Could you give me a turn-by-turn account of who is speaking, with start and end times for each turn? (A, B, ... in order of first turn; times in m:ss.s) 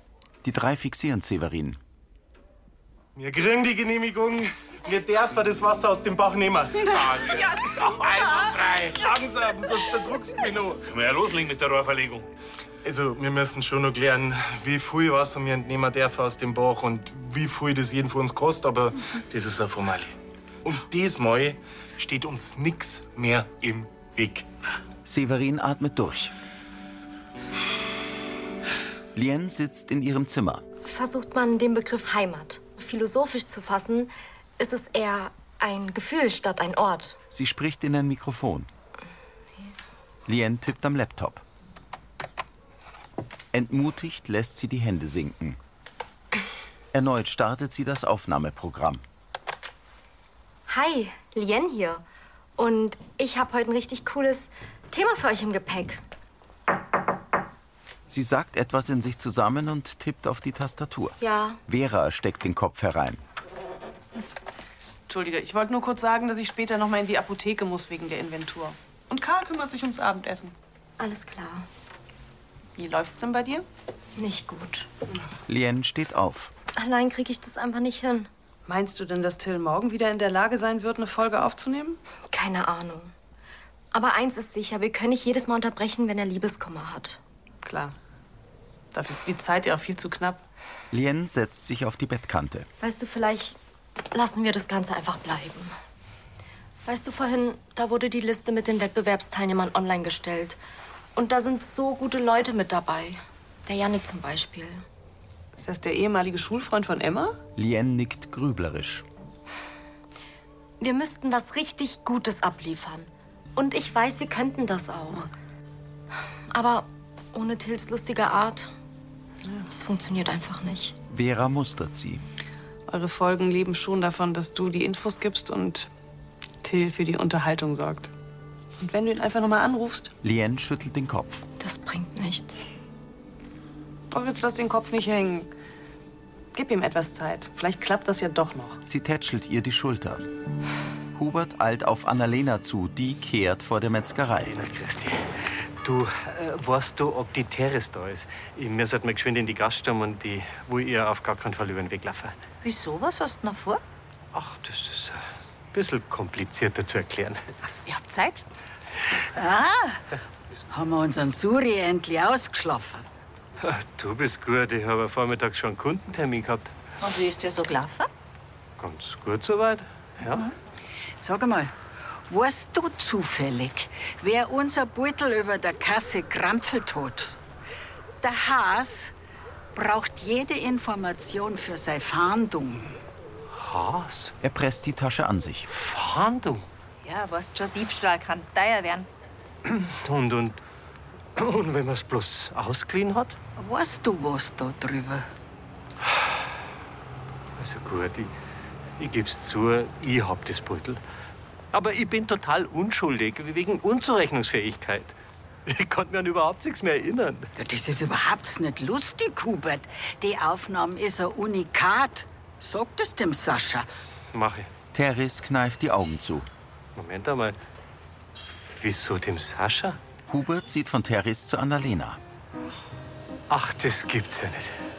0:00.4-0:01.8 A
0:03.2-0:08.3 B
0:06.9-0:09.0 C
0:08.9-0:10.8 B
0:10.9-0:12.2 C
0:12.8-0:24.4 B
0:25.0-0:26.3 A
0:29.1-0:30.6 A
0:30.8-0:37.2 D
0:37.3-0:38.7 A
0:40.3-0:41.4 A
0:43.5-0:45.6 A
0:46.9-0:49.0 A
0:50.7-0:52.0 D
0:52.6-0:56.0 D
0:58.1-1:03.2 A
1:01.2-1:01.6 D
1:05.1-1:10.5 E
1:11.0-1:11.7 D
1:12.8-1:13.6 E
1:14.2-1:14.9 D
1:15.5-1:16.5 A
1:16.7-1:18.3 D
1:18.6-1:22.0 E
1:22.3-1:23.1 D
1:23.9-1:27.2 D
1:27.6-1:27.9 E
1:28.9-1:30.4 E
1:30.9-1:32.7 A
1:32.8-1:33.6 D
1:34.1-1:35.7 D
1:36.8-1:40.6 D
1:41.1-1:44.8 D
1:45.6-1:47.4 E
1:47.6-1:49.0 A
1:50.8-1:55.3 D
1:56.5-1:58.7 D
1:59.7-2:00.9 D
2:01.1-2:02.2 A
2:02.9-2:05.9 E
2:06.6-2:08.1 E
2:08.8-2:10.1 E
2:10.2-2:11.4 A
2:11.6-2:12.7 D
2:14.1-2:15.5 E
2:16.5-2:18.8 E
2:18.8-2:20.2 A
2:21.1-2:24.5 A
2:24.5-2:32.4 F
2:32.6-2:33.8 G
2:34.3-2:35.2 F
2:35.7-2:37.4 F
2:37.8-2:38.4 G
2:39.3-2:40.0 H
2:40.7-2:43.1 H
2:43.6-2:46.7 F
2:47.0-2:48.1 G
2:48.8-2:50.5 F
2:51.2-2:51.7 H
2:52.3-2:57.4 H
2:58.2-2:59.1 H
2:59.7-3:02.9 H
3:03.5-3:04.3 F
3:04.4-3:05.7 A
3:05.7-3:06.6 F
3:09.6-3:10.6 F
3:11.4-3:13.4 F
3:13.6-3:15.3 H
3:17.6-3:18.3 F
3:19.0-3:21.0 F
3:21.7-3:25.1 F
3:25.7-3:27.5 F
3:27.6-3:33.9 H
3:34.3-3:34.7 F
3:34.9-3:36.5 A
3:36.9-3:37.6 F
3:38.7-3:40.0 F
3:40.3-3:42.2 A
3:43.5-3:44.7 F